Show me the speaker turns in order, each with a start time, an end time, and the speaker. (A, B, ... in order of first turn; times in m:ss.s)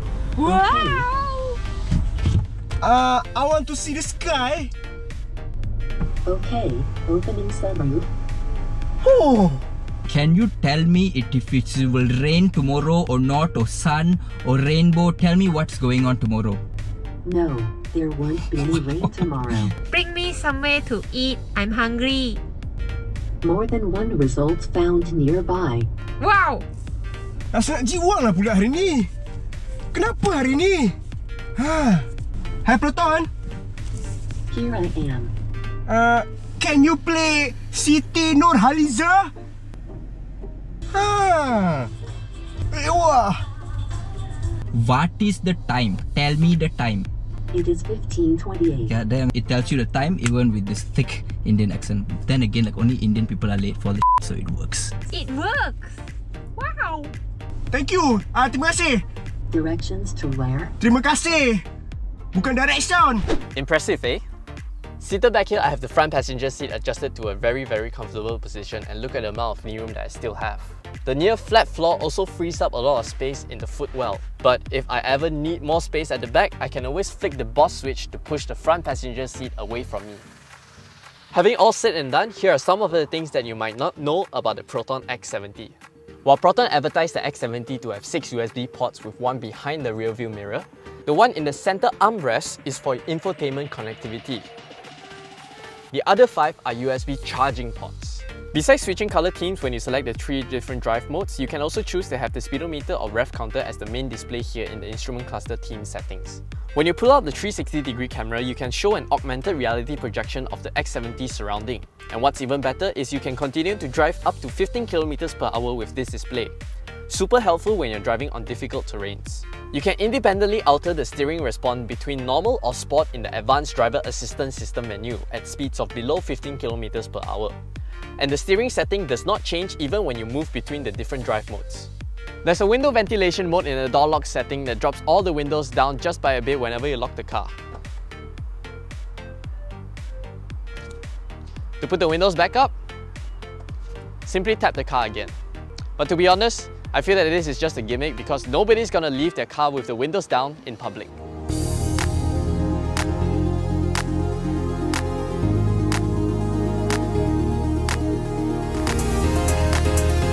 0:00.4-0:01.6 A
0:00.4-0:01.1 B
0:02.8-0:04.7 C
0:06.2-0:08.1 B
0:09.0-0:09.6 C
0:10.1-0:16.6 D
0:17.2-0:19.7 B
0:19.9-0:22.4 A
0:23.4-0:25.9 B
0:26.2-0:26.6 A
0:27.5-0:29.1 C
0:29.9-0:31.0 C
0:31.6-0:32.1 C
0:32.6-0:33.3 C
0:34.5-0:35.3 B
0:35.9-0:39.3 C
0:40.9-0:41.9 C
0:42.7-0:43.4 C
0:44.7-0:47.1 D
0:47.5-0:49.0 B
0:48.9-0:54.9 D
0:55.1-0:56.0 A
0:56.6-0:57.1 A
0:57.7-0:59.0 C
0:59.5-1:00.7 B
1:00.8-1:01.6 C
1:02.3-1:03.2 C
1:03.6-1:04.2 E
1:05.0-1:20.2 E
1:21.3-1:34.5 E
1:35.9-1:56.5 E
1:57.1-2:07.6 E
2:08.2-2:11.9 E
2:12.4-2:17.5 E
2:21.8-2:22.7 E
2:24.2-2:25.4 E
2:26.0-2:31.2 E